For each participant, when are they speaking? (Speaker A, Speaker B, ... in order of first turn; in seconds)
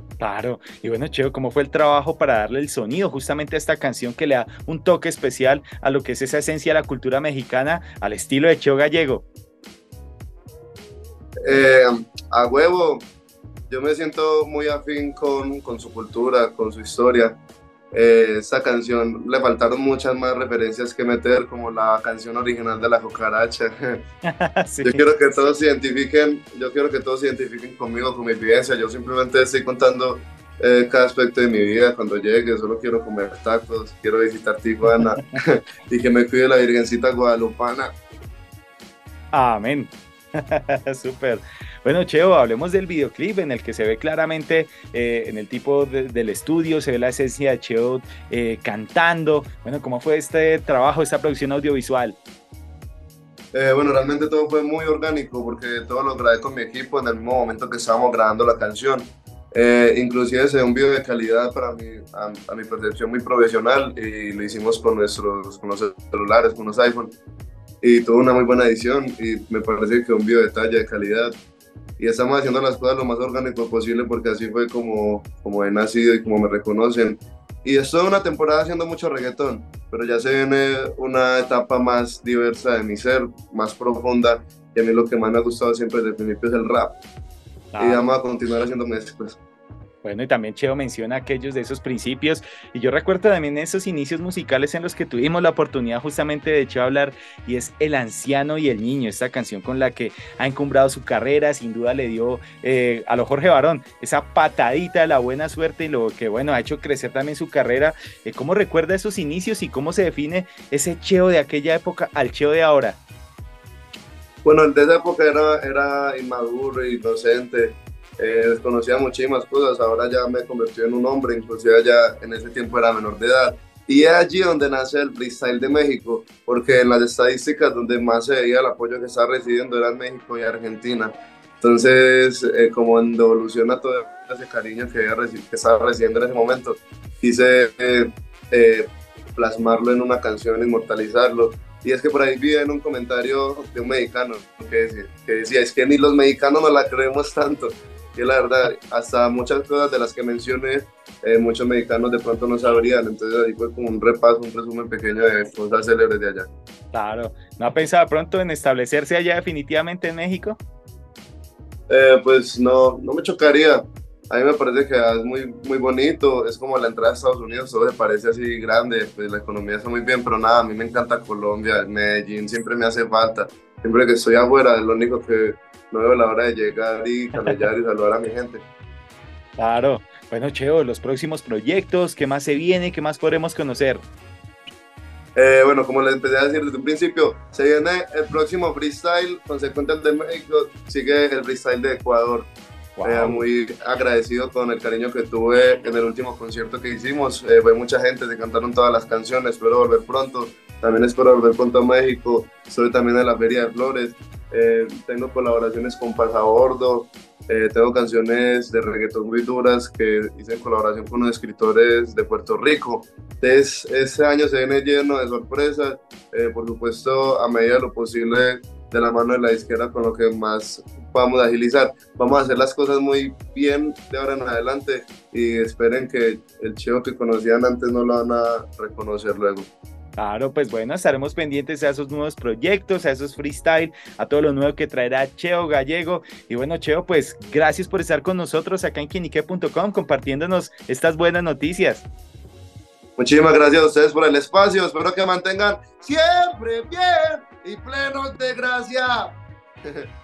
Speaker A: 0.2-9.2, 24.2-25.0, 39.3-52.2, 87.7-88.0, 90.0-113.0, 156.9-160.6, 179.6-184.0, 193.0-193.4, 230.2-242.1
Speaker B: 11.4-13.1, 13.7-17.4, 17.9-24.0, 24.8-37.9, 53.5-67.2, 67.8-71.3, 72.0-87.0, 87.8-89.4, 114.4-156.5, 161.9-178.7, 185.3-192.5, 193.0-229.7, 243.2-250.0